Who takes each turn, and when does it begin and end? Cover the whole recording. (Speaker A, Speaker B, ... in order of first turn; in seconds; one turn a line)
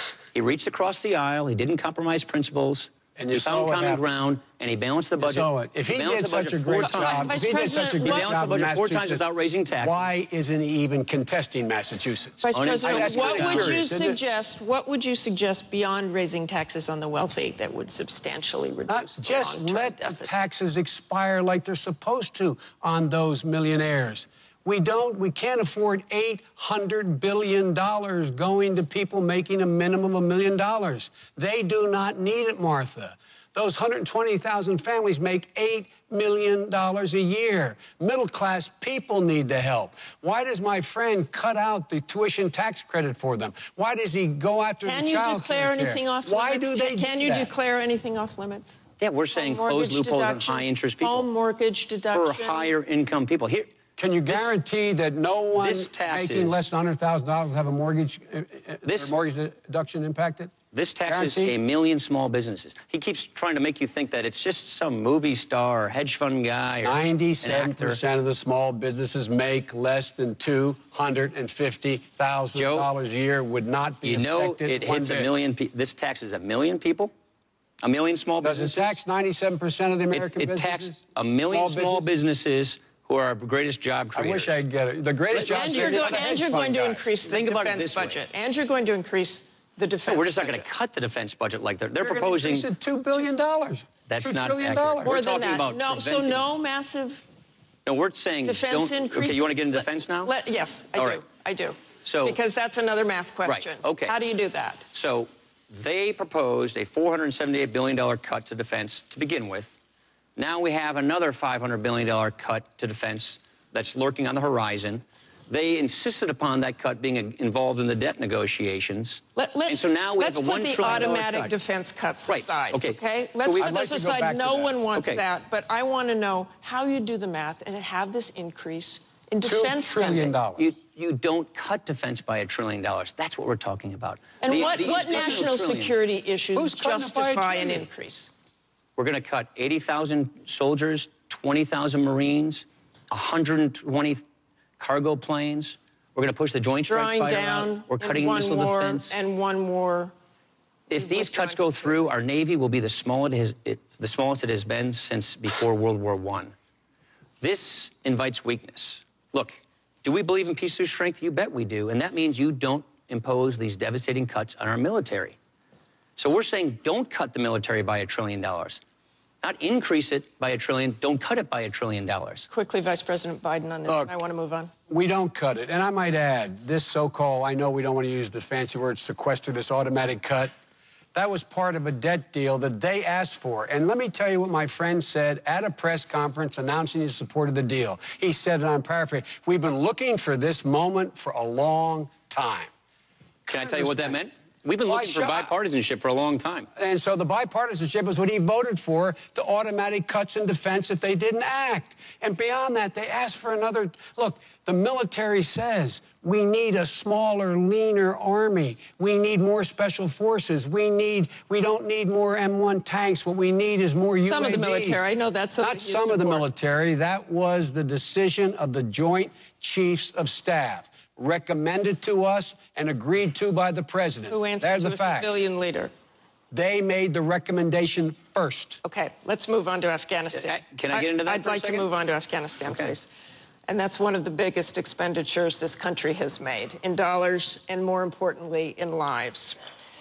Speaker A: 0.3-10.1
Speaker B: 3.2-4.0
Speaker B: 5.2-14.2
Speaker C: 6.8-8.5
Speaker C: 12.4-20.4
Speaker A: 12.5-13.8
Speaker B: 18.9-47.5
Speaker C: 44.8-48.8
Speaker A: 49.0-51.3
Speaker C: 49.3-52.8
Speaker A: 52.1-53.7
Speaker B: 54.0-60.5
Speaker A: 54.3-54.6
Speaker A: 55.5-56.7
Speaker A: 58.8-59.1
Speaker A: 60.7-68.0
Speaker B: 61.1-61.6
Speaker B: 66.8-75.3
Speaker A: 72.5-72.9
Speaker A: 74.0-77.1
Speaker A: 77.8-79.0
Speaker B: 78.4-82.1
Speaker A: 80.1-84.6
Speaker B: 84.2-87.1
Speaker A: 85.3-86.3
Speaker C: 85.4-90.7
Speaker A: 87.3-88.2
Speaker A: 90.0-92.7
Speaker B: 92.0-95.2
Speaker A: 94.1-96.4
Speaker C: 95.0-97.3
Speaker A: 97.8-100.3
Speaker C: 98.4-104.8
Speaker A: 101.0-101.2
Speaker A: 102.0-102.4
Speaker A: 103.4-104.2
Speaker A: 104.9-109.8
Speaker A: 110.4-121.5
Speaker C: 119.4-130.3
Speaker A: 122.3-123.8
Speaker B: 123.6-124.8
Speaker A: 124.9-125.2
Speaker B: 129.4-130.7
Speaker A: 130.6-135.9
Speaker C: 134.4-138.3
Speaker B: 136.6-137.8
Speaker A: 139.0-144.2
Speaker A: 144.8-149.2
Speaker C: 146.9-150.1
Speaker C: 150.9-152.1
Speaker A: 150.9-156.5
Speaker A: 157.4-165.4
Speaker A: 166.2-168.8
Speaker A: 169.4-172.5
Speaker C: 172.5-174.7
Speaker B: 173.9-174.1
Speaker B: 174.9-180.5
Speaker B: 181.1-192.7
Speaker A: 193.5-196.7
Speaker B: 193.5-194.2
Speaker B: 194.8-195.5
Speaker B: 196.8-215.0
Speaker C: 214.2-216.5
Speaker B: 215.6-225.4
Speaker C: 224.3-225.9
Speaker B: 226.5-228.8
Speaker C: 228.8-233.1
Speaker A: 230.3-231.9
Speaker A: 232.7-232.9
Speaker C: 233.7-239.6